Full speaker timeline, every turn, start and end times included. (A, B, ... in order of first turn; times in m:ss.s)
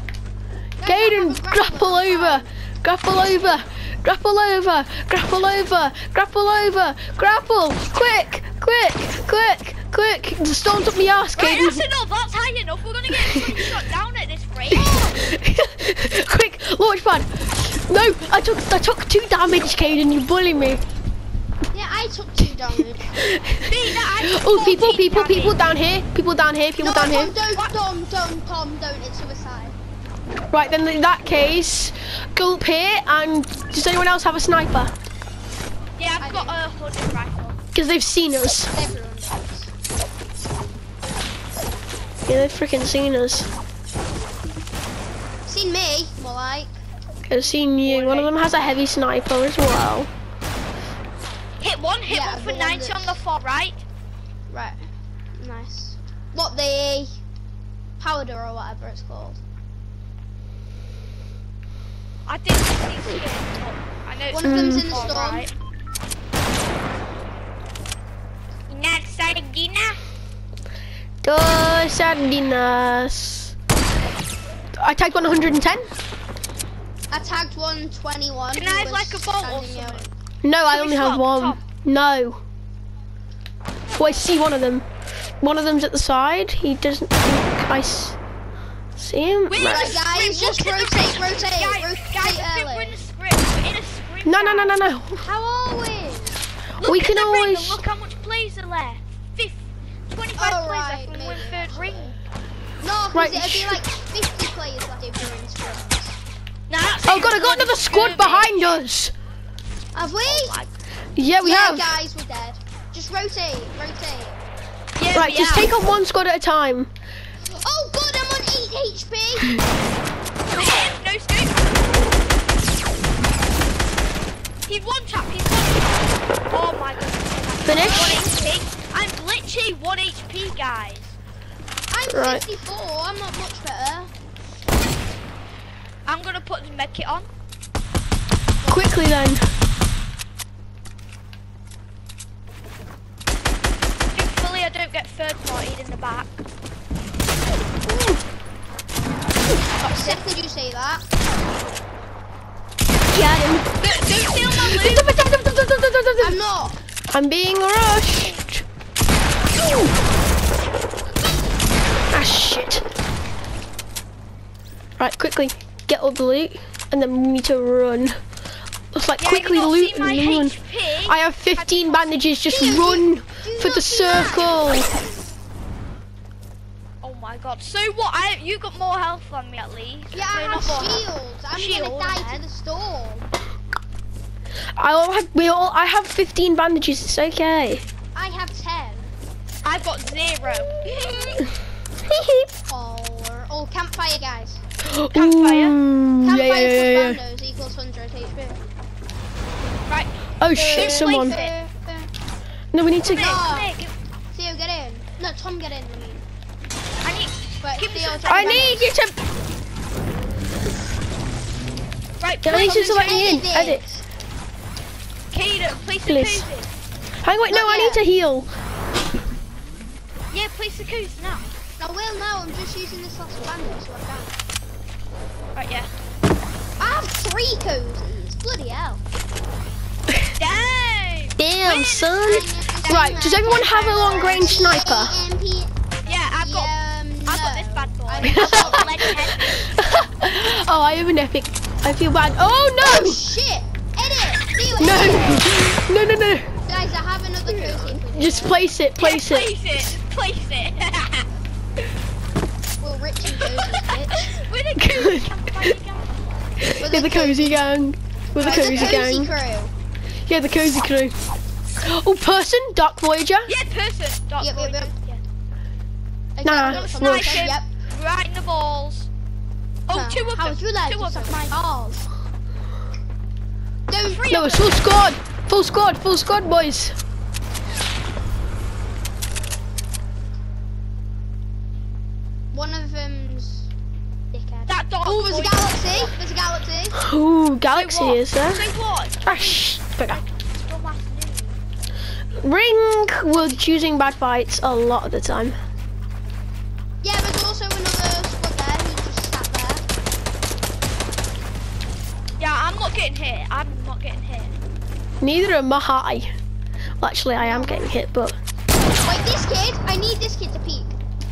0:00.8-0:02.5 A
0:00.8-0:11.8 B
0:11.4-0:15.0 C
0:14.7-0:15.3 A
0:15.0-0:20.8 B
0:21.7-0:23.2 A
0:23.2-0:27.3 B
0:23.6-0:25.6 C
0:26.8-0:29.8 A
0:30.5-0:34.9 B
0:36.0-0:37.6 C
0:36.2-0:36.6 A
0:37.7-0:38.7 B
0:38.7-0:39.7 A
0:42.3-0:43.5 B
0:45.5-0:46.7 A
0:47.3-0:50.1 B
0:47.8-0:48.4 C
0:51.6-0:53.8 C
0:52.1-0:53.2 A
0:54.5-0:54.8 A
0:55.4-0:57.2 A
0:58.0-0:59.4 A
1:02.3-1:05.5 C
1:04.3-1:05.5 A
1:04.4-1:04.9 B
1:08.7-1:10.0 C
1:11.2-1:13.6 B
1:14.8-1:15.9 B
1:17.1-1:20.1 A
1:18.5-1:20.1 C
1:20.4-1:22.4 B
1:20.7-1:21.6 C
1:24.0-1:24.9 B
1:25.4-1:28.2 B
1:29.0-1:30.0 B
1:29.5-1:34.9 C
1:29.7-1:33.0 A
1:34.2-1:35.3 B
1:35.2-1:36.4 A
1:36.8-1:42.2 C
1:36.8-1:37.8 B
1:40.4-1:42.2 A
1:42.8-1:46.2 A
1:43.1-1:43.8 B
1:46.7-1:48.8 C
1:47.1-1:49.1 B
1:49.9-1:50.6 A
1:50.2-1:50.7 C
1:51.2-1:51.9 B
1:51.4-1:54.4 A
1:55.0-1:55.7 C
1:55.1-1:56.9 B
1:57.5-1:59.6 A
2:00.5-2:01.9 C
2:04.7-2:11.2 C
2:07.6-2:08.2 B
2:07.8-2:08.3 A
2:11.9-2:14.1 A
2:12.1-2:12.4 B
2:16.1-2:17.3 C
2:18.6-2:19.0 A
2:18.7-2:19.4 B
2:24.1-2:26.4 C
2:29.8-2:31.0 A
2:29.8-2:30.2 C
2:33.1-2:33.7 B
2:33.8-2:35.2 C
2:34.5-2:36.4 B
2:36.2-2:36.8 A
2:37.1-2:38.6 B
2:42.1-2:42.8 B
2:45.0-2:48.2 B
2:48.9-2:55.0 B
2:49.2-2:52.2 C
2:52.5-2:54.9 A
2:57.0-3:02.4 C
3:00.1-3:03.2 A
3:04.8-3:07.8 B
3:08.2-3:09.1 A
3:09.6-3:11.5 C
3:12.0-3:12.5 B
3:12.7-3:14.6 A
3:14.8-3:17.2 B
3:15.1-3:15.8 C
3:16.2-3:18.6 A
3:19.9-3:21.6 C
3:20.4-3:21.4 B
3:20.7-3:22.1 A
3:22.7-3:23.4 B
3:23.0-3:23.9 C
3:23.2-3:23.8 A
3:24.3-3:26.2 A
3:27.0-3:28.8 C
3:27.6-3:28.9 A
3:28.3-3:29.3 B
3:32.2-3:33.3 C
3:32.4-3:34.0 B
3:32.6-3:33.8 A
3:35.3-3:36.7 C
3:36.1-3:36.5 B
3:37.2-3:38.5 B
3:37.5-3:38.0 A
3:40.3-3:41.5 C
3:41.8-3:44.4 A
3:45.6-3:45.9 C
3:46.8-3:49.0 A
3:50.4-3:53.2 C
3:51.4-3:55.2 B
3:52.2-3:55.7 A
3:56.1-3:56.7 C
3:56.3-3:59.2 A
3:57.2-3:59.8 C
3:58.2-4:03.2 B
4:02.8-4:05.5 A
4:04.8-4:06.6 B
4:06.7-4:08.6 A
4:07.5-4:08.0 C
4:08.1-4:10.0 B
4:09.0-4:11.3 C
4:12.8-4:14.3 A
4:13.3-4:16.1 C
4:14.8-4:15.4 B
4:16.6-4:19.3 B
4:16.8-4:17.6 A
4:18.4-4:19.1 C
4:18.4-4:19.7 A
4:20.3-4:21.2 B
4:21.8-4:23.5 B
4:23.5-4:25.2 C
4:24.4-4:24.9 A
4:26.4-4:27.7 A
4:26.4-4:27.5 B
4:26.6-4:29.1 C
4:29.9-4:31.6 C
4:29.9-4:32.1 A
4:33.9-4:34.3 A
4:34.0-4:34.8 C
4:34.3-4:37.0 B
4:42.5-4:43.7 A
4:44.3-4:47.0 A
4:44.7-4:46.1 C
4:47.0-4:48.7 B
4:47.7-4:51.6 C
4:49.2-4:50.2 B
4:52.4-4:55.6 B
4:57.0-4:59.9 A
5:02.4-5:04.6 C
5:05.2-5:06.3 B
5:07.0-5:08.4 B
5:07.4-5:07.8 C
5:07.5-5:07.8 A
5:08.8-5:10.9 A